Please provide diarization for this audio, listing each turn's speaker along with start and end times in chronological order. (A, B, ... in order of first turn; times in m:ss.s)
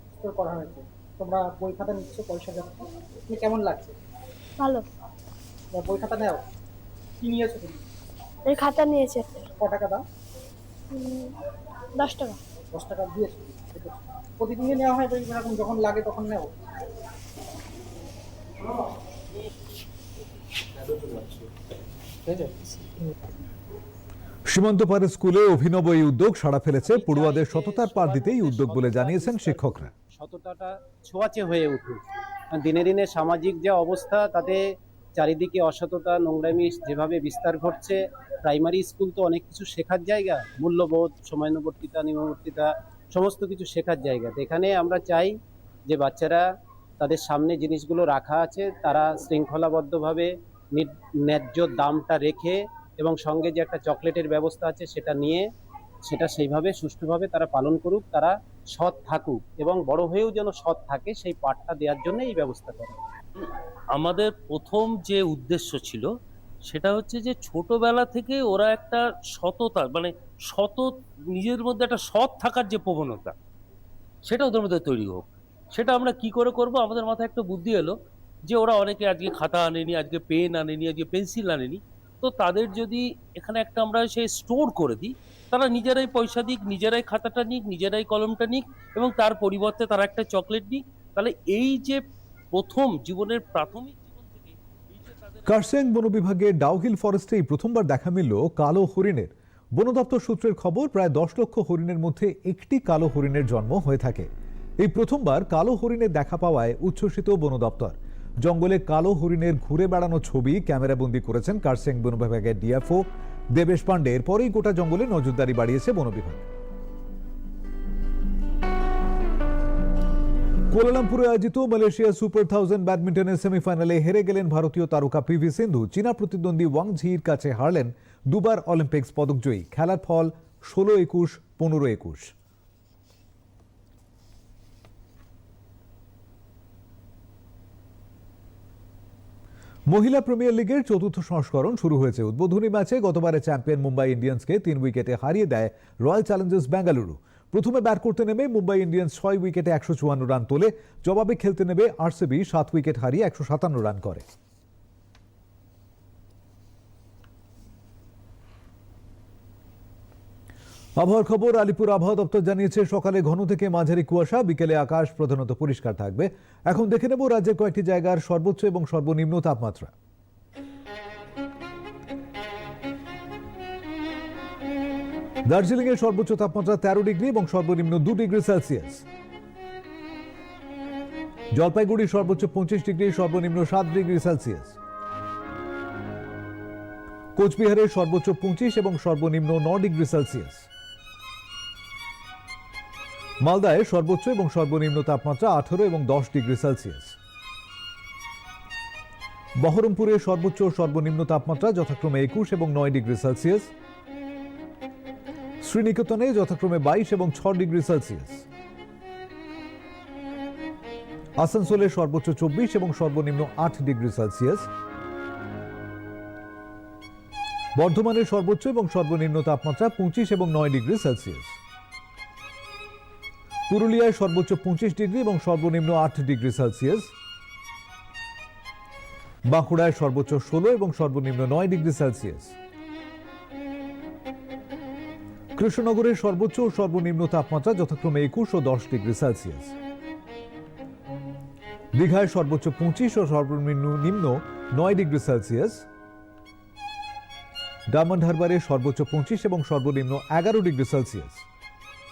0:00.2-0:04.0 A
0:04.6-0:04.8 B
0:05.7-0:06.4 A
0:07.2-0:07.8 A
0:08.5-0:09.5 B
0:09.6-0:10.0 A
0:10.9-0:11.3 B
0:12.0-0:12.4 B
0:12.7-0:16.5 A
0:20.8-0:21.5 A
0:22.3-0:23.1 A
0:24.5-0:29.9 C
0:26.8-0:34.6 D
0:35.2-0:45.3 D
0:45.9-0:46.4 D
0:47.0-0:55.5 D
0:56.1-1:03.0 D
1:03.9-1:06.1 E
1:06.7-1:13.3 E
1:14.3-1:17.9 E
1:18.5-1:32.0 E
1:32.5-1:35.4 E
1:35.4-1:56.4 C
2:00.7-2:12.3 C
2:19.9-2:34.2 C
2:41.0-2:49.9 C
2:55.4-2:59.0 C
3:01.5-3:04.8 C
3:07.4-3:10.7 C
3:13.4-3:17.1 C
3:19.6-3:23.7 C
3:25.6-3:28.4 C
3:31.4-3:34.7 C
3:37.8-3:41.6 C
3:43.7-3:47.1 C
3:49.5-3:52.5 C
3:55.6-3:59.7 C
4:01.9-4:05.8 C
4:07.9-4:11.4 C